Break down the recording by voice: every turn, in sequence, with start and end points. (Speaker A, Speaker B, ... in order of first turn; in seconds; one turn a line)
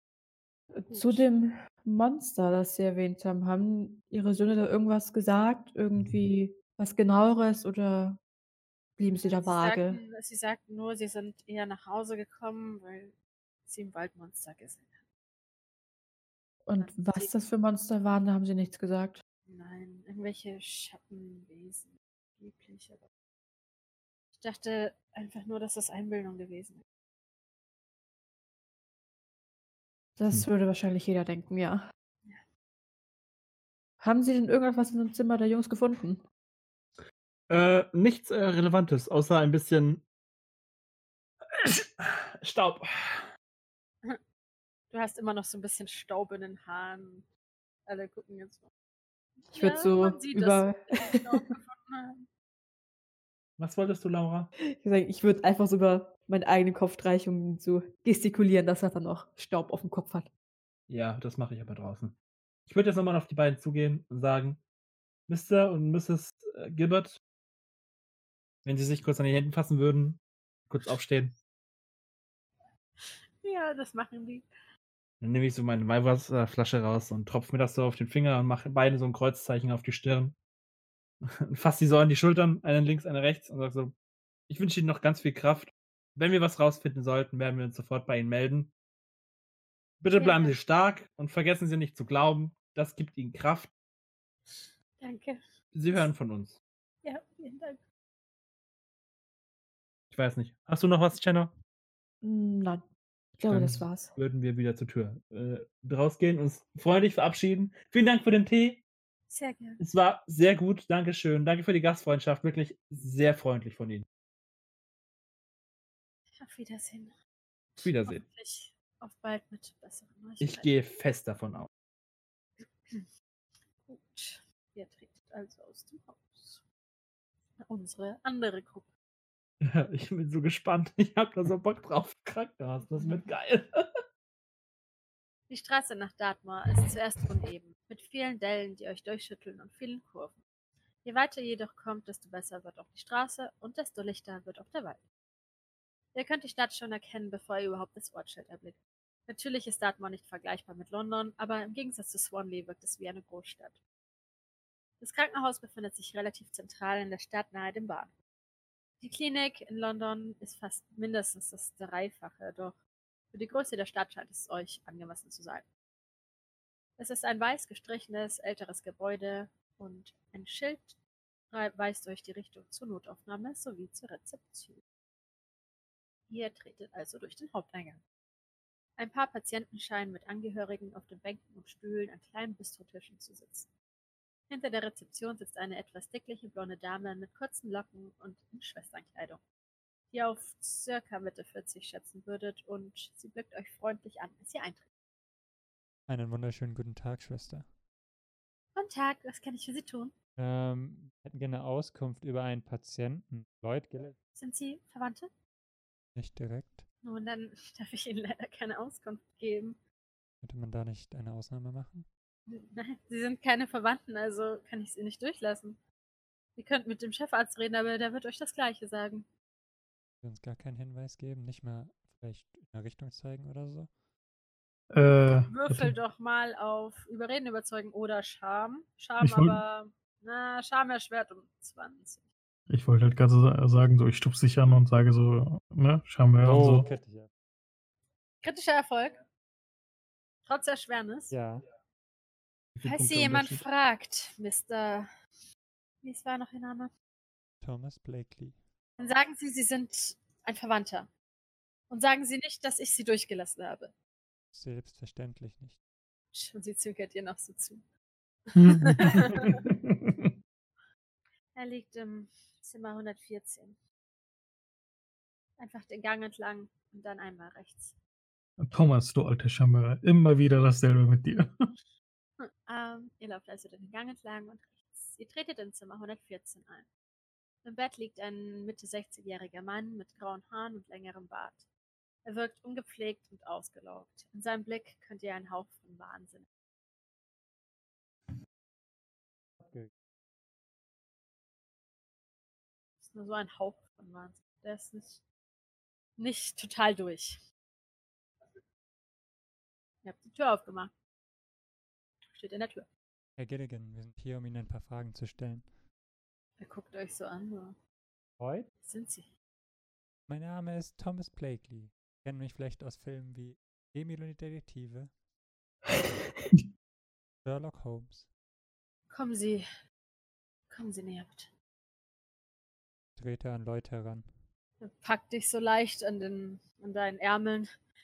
Speaker A: 0.8-8.2
Speaker B: 0.9-1.2
Speaker C: 5.9-6.2
Speaker A: 9.0-10.0
Speaker B: 9.2-15.1
Speaker A: 16.6-19.2
Speaker B: 16.8-17.3
Speaker B: 19.4-23.1
Speaker B: 24.3-26.8
Speaker A: 30.2-31.8
Speaker A: 34.0-36.2
Speaker C: 37.5-40.0
Speaker C: 41.5-43.3
Speaker B: 44.9-47.3
Speaker B: 47.9-48.7
Speaker B: 49.4-52.3
Speaker A: 49.5-51.3
Speaker C: 53.6-54.5
Speaker A: 54.7-60.3
Speaker C: 60.9-64.6
Speaker C: 65.3-67.2
Speaker C: 68.6-71.3
Speaker B: 73.0-74.5
Speaker C: 75.2-80.4
Speaker C: 81.2-83.9
Speaker C: 84.5-88.7
Speaker C: 90.0-93.7
Speaker B: 90.1-90.6
Speaker B: 94.5-96.1
Speaker C: 95.7-96.6
Speaker B: 97.0-97.8
Speaker C: 100.1-101.5
Speaker A: 102.2-102.8
Speaker A: 103.4-104.1
Speaker C: 103.5-108.8
Speaker B: 109.3-109.8
Speaker C: 109.8-114.0
Speaker B: 116.3-117.1
Speaker B: 117.8-120.7
Speaker C: 117.8-118.2
Speaker C: 120.4-121.7
Speaker B: 122.6-123.1
Speaker B: 123.8-126.6
Speaker B: 127.4-128.9
Speaker C: 129.6-133.8
Speaker B: 132.9-133.2
Speaker B: 135.5-140.4
Speaker B: 141.0-145.0
Speaker B: 146.1-153.8
Speaker B: 155.0-158.1
Speaker B: 159.0-162.8
Speaker B: 163.3-165.7
Speaker B: 167.0-171.0
Speaker B: 171.5-174.8
Speaker B: 176.3-178.0
Speaker B: 179.0-183.7
Speaker B: 184.5-189.4
Speaker B: 190.1-194.8
Speaker D: 196.1-197.8
Speaker B: 198.7-200.1
Speaker D: 200.4-204.2
Speaker B: 204.3-205.3
Speaker D: 206.1-206.9
Speaker B: 207.0-209.8
Speaker D: 210.4-212.1
Speaker B: 212.5-215.8
Speaker B: 216.5-219.3
Speaker D: 220.2-224.0
Speaker E: 224.9-225.9
Speaker B: 225.5-232.3
Speaker E: 229.2-229.6
Speaker E: 232.7-236.9
Speaker D: 236.4-237.3
Speaker B: 238.4-239.2
Speaker B: 240.4-241.3
Speaker D: 241.3-241.6
Speaker C: 242.7-243.6
Speaker B: 242.8-245.1
Speaker B: 246.0-246.9
Speaker D: 247.6-248.7
Speaker B: 249.0-251.1
Speaker B: 251.9-253.9
Speaker D: 254.5-255.8
Speaker B: 256.3-257.8
Speaker B: 258.5-259.7
Speaker E: 258.5-260.1
Speaker B: 261.5-263.8
Speaker B: 265.6-267.9
Speaker E: 268.6-271.5
Speaker B: 272.4-276.9
Speaker B: 277.6-281.7
Speaker B: 282.2-286.5
Speaker D: 289.6-289.9
Speaker B: 293.0-295.2
Speaker B: 296.2-297.4
Speaker B: 300.0-300.9
Speaker B: 302.3-302.9
Speaker D: 303.4-305.9
Speaker B: 306.6-307.8
Speaker D: 308.4-308.7
Speaker B: 308.8-309.3
Speaker D: 310.3-315.2
Speaker D: 317.4-318.3
Speaker B: 319.1-319.6
Speaker B: 320.7-321.5
Speaker D: 323.1-324.4
Speaker B: 324.8-327.7